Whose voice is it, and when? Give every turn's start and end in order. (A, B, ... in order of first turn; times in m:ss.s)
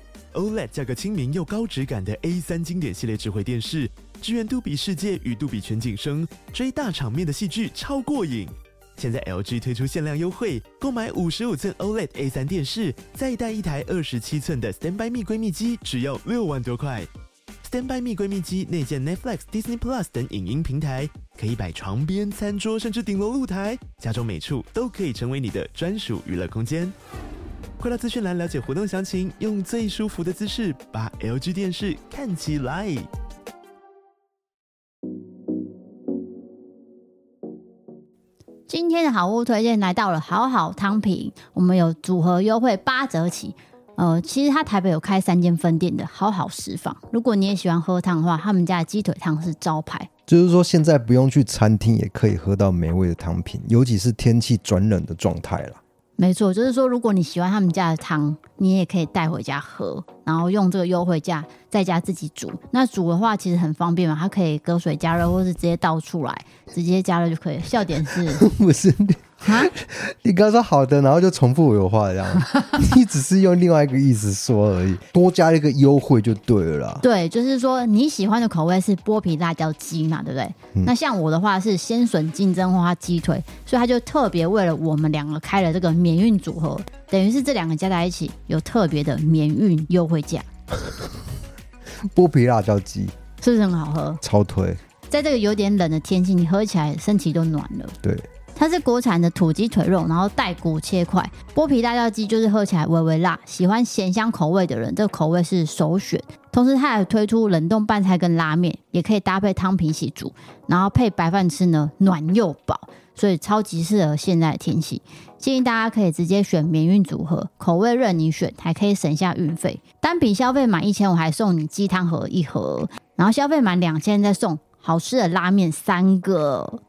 0:00.3-0:17.1 A
0:17.6-0:26.9 A
0:27.8-0:33.1 A
0:38.7-0:50.1 B
0:50.3-0:55.8 C
0:56.2-1:08.4 B
1:08.1-1:17.0 C
1:09.4-1:09.7 B
1:17.0-1:30.5 B
1:32.1-1:33.1 C
1:33.4-1:34.2 B
1:34.2-1:34.8 C
1:35.1-1:37.9 B
1:38.6-2:06.8 B